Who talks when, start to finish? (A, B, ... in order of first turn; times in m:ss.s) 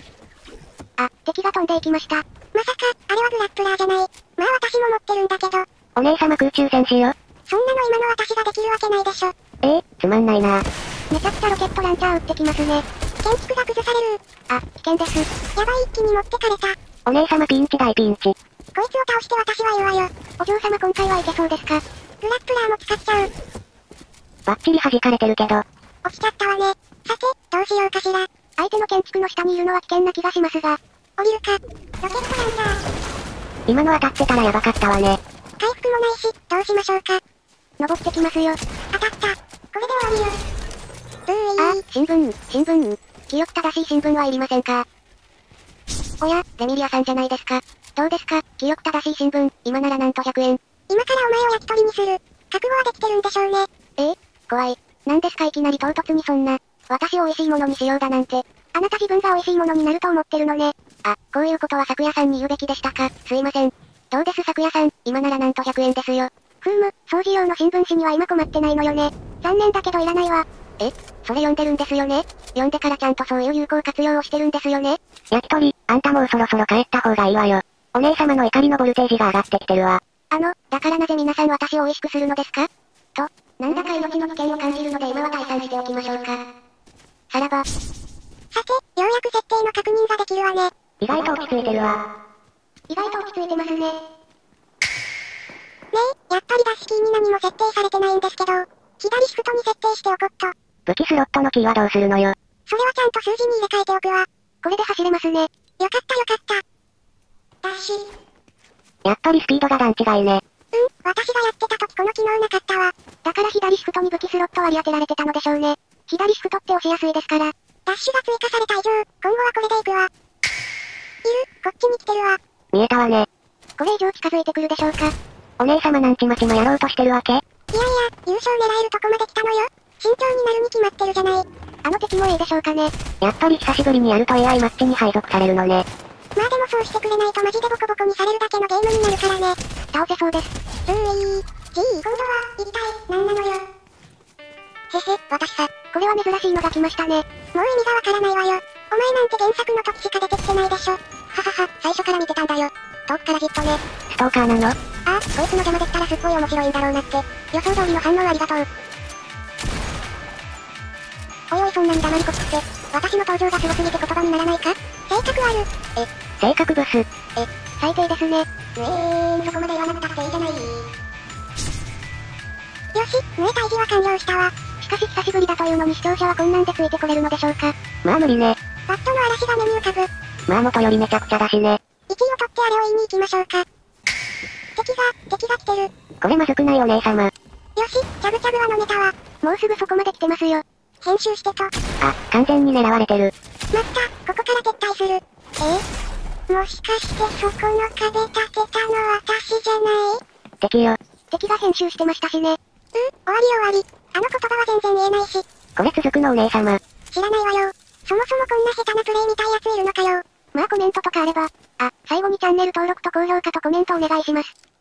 0:01.0-0:02.2 A
0:02.5-0:05.6 B
0:06.0-0:07.1 C
0:07.5-0:09.3 B
0:09.6-0:10.6 C
0:11.1-0:12.8 A
0:13.2-0:14.2 B
0:14.5-0:15.3 A
0:15.5-0:16.8 B
0:17.1-0:18.3 C
0:18.8-0:20.1 B
0:20.4-0:21.8 A
0:22.2-0:23.3 B
0:24.4-0:25.6 C
0:26.0-0:28.3 B
0:28.6-0:30.8 A
0:31.2-0:32.8 B
0:33.7-0:35.2 C
0:35.6-0:37.2 B
0:37.8-0:38.6 A
0:38.9-0:40.4 B
0:41.3-0:41.8 B
0:41.6-0:44.8 A
0:46.2-0:50.6 A
0:50.9-0:53.7 B
0:54.0-1:15.0 A
1:15.3-1:20.0 C
1:20.3-1:26.4 A
1:27.3-1:27.6 A
1:28.5-1:30.7 B
1:31.0-1:32.0 C
1:32.9-1:34.0 A
1:35.9-1:40.5 B
1:40.9-1:42.4 C
1:42.7-1:44.3 B
1:44.6-1:45.5 A
1:45.8-1:46.6 B
1:47.6-1:48.1 B
1:49.0-1:50.4 C
1:50.7-1:52.9 B
1:53.2-1:57.5 A
1:57.9-2:00.1 B
2:01.2-2:02.4 B
2:02.7-2:03.3 C
2:03.8-2:05.1 A
2:05.6-2:07.4 C
2:07.7-2:11.4 B
2:11.8-2:12.9 A
2:13.2-2:15.9 C
2:16.4-2:19.6 B
2:19.9-2:20.5 A
2:20.9-2:23.6 B
2:24.9-2:25.8 B
2:25.9-2:27.2 A
2:27.5-2:33.8 B
2:34.1-2:34.8 C
2:35.1-2:38.6 B
2:41.5-2:45.7 B
2:46.4-2:47.0 C
2:47.4-2:48.5 A
2:48.8-2:50.8 B
2:52.9-2:54.5 B
2:54.8-2:57.7 A
2:58.0-2:58.6 C
2:58.9-3:00.1 B
3:00.5-3:01.8 C
3:02.1-3:03.6 B
3:04.8-3:05.9 B
3:06.2-3:07.3 C
3:07.8-3:09.1 B
3:09.4-3:10.6 A
3:11.0-3:11.7 B
3:12.0-3:13.3 C
3:13.7-3:15.8 B
3:16.5-3:20.2 B
3:20.6-3:21.0 C
3:21.3-3:22.6 A
3:22.9-3:25.5 B
3:25.8-3:26.8 C
3:27.1-3:30.2 B
3:30.5-3:34.5 A